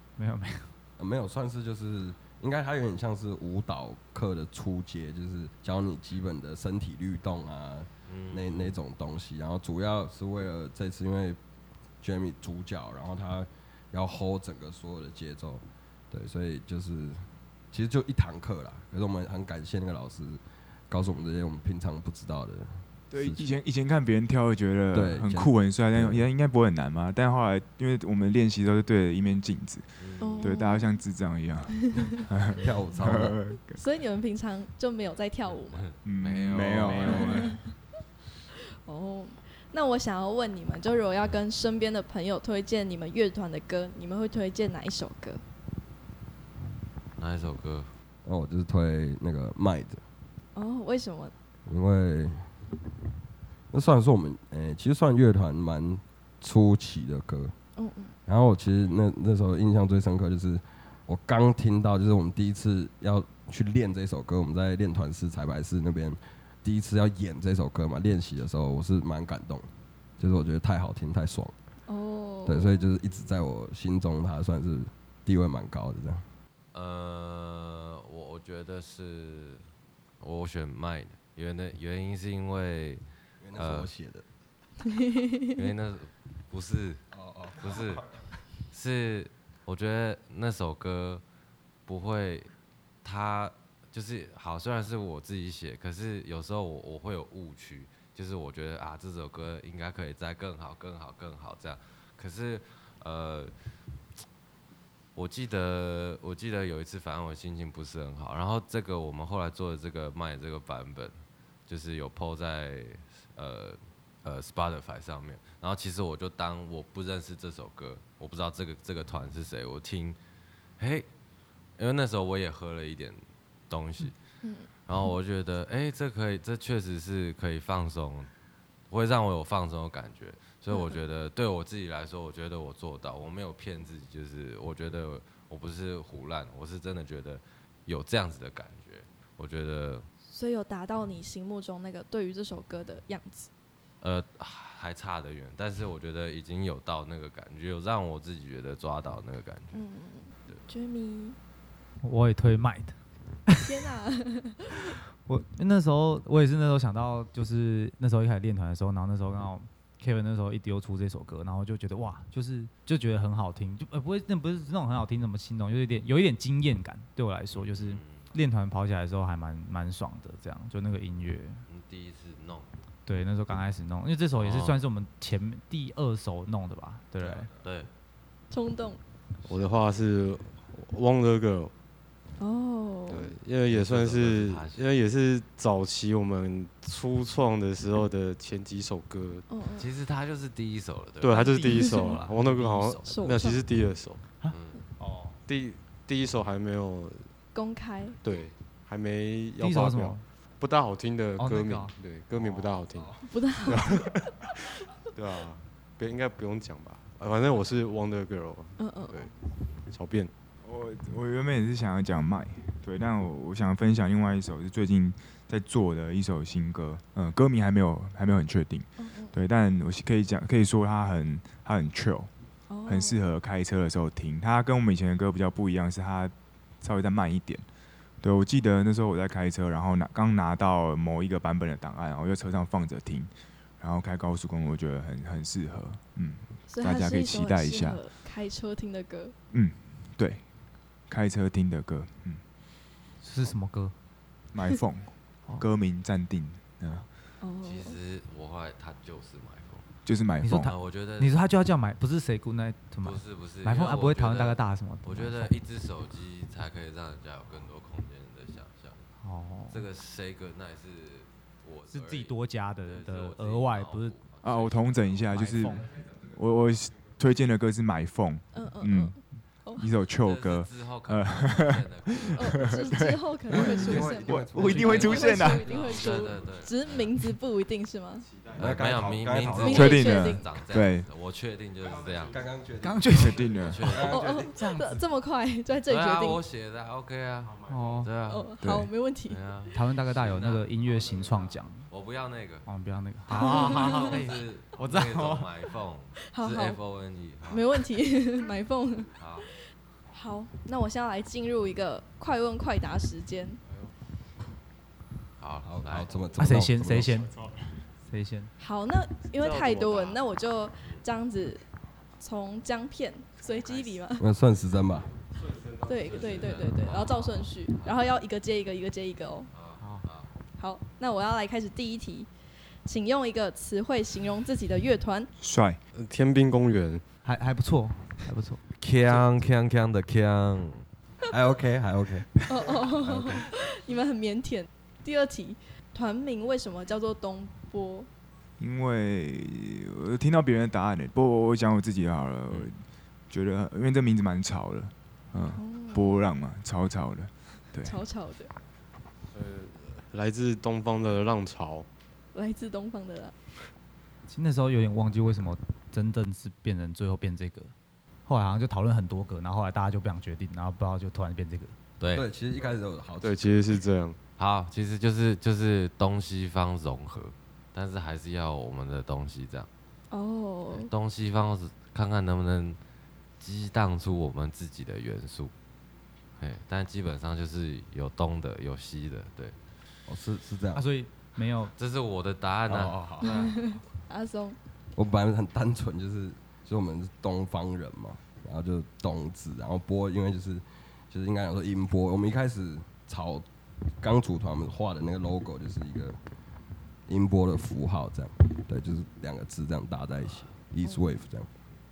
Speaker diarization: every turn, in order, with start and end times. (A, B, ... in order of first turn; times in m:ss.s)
0:00.2-0:00.7 A
0:01.0-0:11.4 B
0:08.1-0:08.8 C
0:12.0-0:23.4 B
0:23.1-0:33.8 D
0:24.9-0:26.2 B
0:30.0-0:30.6 C
0:30.2-0:31.0 E
0:31.7-0:32.2 E
0:32.5-0:33.4 B
0:33.7-0:35.9 E
0:35.5-0:37.5 C
0:36.0-0:37.6 D
0:36.9-0:37.7 E
0:38.5-0:45.4 E
0:47.2-0:47.9 C
0:48.2-0:50.0 B
0:50.5-0:51.3 E
0:51.7-0:52.5 B
0:53.7-0:57.5 B
0:57.8-0:58.1 E
0:58.2-1:11.5 B
1:11.9-1:12.8 E
1:12.4-1:16.2 B
1:16.7-1:19.6 C
1:20.2-1:23.0 C
1:23.4-1:24.2 B
1:23.6-1:23.9 C
1:24.8-1:25.7 E
1:25.5-1:27.0 C
1:27.1-1:28.0 B
1:27.6-1:28.0 C
1:28.7-1:31.2 C
1:31.9-1:32.5 C
1:33.0-1:43.5 C
1:45.1-2:00.2 C
2:00.8-2:01.1 C
2:01.8-2:04.2 C
2:04.4-2:05.1 E
2:04.8-2:08.3 C
2:08.9-2:20.1 C
2:10.7-2:11.0 E
2:20.3-2:23.5 E
2:24.0-2:29.8 C
2:29.7-2:31.4 E
2:32.0-2:33.7 A
2:33.6-2:34.9 E
2:35.2-2:51.6 A
2:47.5-2:48.3 C
2:51.7-2:52.7 C
2:53.0-2:57.5 A
2:54.4-2:54.8 C
2:57.2-2:57.9 C
2:58.5-2:59.0 E
2:59.4-3:01.7 F
3:02.4-3:03.3 E
3:03.1-3:09.4 F
3:03.7-3:04.9 C
3:09.5-3:09.9 E
3:09.8-3:11.9 C
3:11.2-3:14.2 F
3:11.3-3:13.1 A
3:11.6-3:12.2 E
3:13.0-3:13.6 E
3:14.4-3:15.4 A
3:14.5-3:14.8 C
3:15.5-3:17.2 F
3:17.5-3:18.2 E
3:18.2-3:24.2 F
3:19.6-3:20.2 A
3:21.4-3:21.9 A
3:23.2-3:24.3 E
3:25.2-3:29.3 F
3:28.8-3:29.2 E
3:29.9-3:30.3 F
3:30.6-3:42.3 D
3:39.0-3:39.4 E
3:42.7-3:43.2 E
3:42.8-3:47.6 D
3:48.2-3:58.0 D
3:56.7-3:59.3 E
3:59.5-4:00.4 D
4:01.1-4:02.4 D
4:03.2-4:03.9 A
4:04.5-4:07.1 D
4:07.4-4:08.0 E
4:07.6-4:09.9 C
4:10.0-4:10.7 D
4:10.4-4:15.5 A
4:10.5-4:11.3 C
4:13.0-4:19.1 C
4:19.2-4:19.8 A
4:19.7-4:26.0 C
4:21.9-4:24.1 A
4:24.4-4:29.2 D
4:25.3-4:25.9 A
4:28.5-4:29.9 E
4:29.7-4:35.9 D
4:30.2-4:32.5 C
4:32.4-4:38.3 E
4:33.5-4:35.2 B
4:34.6-4:37.3 C
4:38.5-4:39.8 B
4:38.5-4:42.4 C
4:39.6-4:40.6 E
4:39.6-4:41.1 D
4:42.2-4:44.6 B
4:42.8-4:43.5 A
4:43.1-4:44.1 D
4:43.6-4:44.3 C
4:44.0-4:46.4 E
4:44.4-4:45.0 A
4:45.9-4:48.5 C
4:47.7-4:48.1 A
4:48.3-4:49.4 E
4:48.6-4:48.9 D
4:49.3-4:52.6 C
4:49.7-4:51.8 A
4:52.6-4:55.5 A
4:53.3-4:54.1 E
4:53.4-4:57.9 C
4:56.3-4:56.8 E
4:57.5-4:59.1 E
4:59.2-4:59.5 C
5:00.1-5:03.6 E
5:05.4-5:06.4 C
5:05.6-5:07.3 B
5:06.4-5:07.4 A
5:08.1-5:08.5 A
5:08.6-5:11.6 E
5:09.4-5:10.2 F
5:12.2-5:14.3 E
5:13.5-5:13.9 F
5:14.2-5:15.1 B
5:15.4-5:16.0 F
5:15.8-5:19.5 E
5:15.9-5:18.1 C
5:19.5-5:20.3 C
5:19.8-5:20.0 A
5:20.6-5:22.3 E
5:22.8-5:25.3 E
5:25.4-5:25.8 D
5:25.9-5:27.0 F
5:27.2-5:28.6 A
5:28.8-5:30.8 C
5:31.3-5:32.3 B
5:32.4-5:38.1 E
5:32.8-5:33.5 B
5:38.6-5:48.0 D
5:45.6-5:46.2 E
5:47.8-5:48.5 E
5:49.3-5:51.9 F
5:52.3-5:53.3 E
5:54.3-5:57.7 A
5:58.2-6:01.8 A
6:02.0-6:02.2 C
6:02.1-6:03.9 B
6:03.2-6:04.2 F
6:04.4-6:09.7 C
6:10.1-6:10.9 E
6:10.7-6:12.8 C
6:13.4-6:15.5 C
6:16.4-6:19.6 C
6:20.1-6:20.8 B
6:20.8-6:21.7 A
6:21.8-6:23.5 C
6:22.7-6:23.5 B
6:23.2-6:24.6 E
6:24.9-6:33.5 B
6:34.0-6:36.2 B
6:37.1-6:41.5 B
6:40.8-6:41.1 E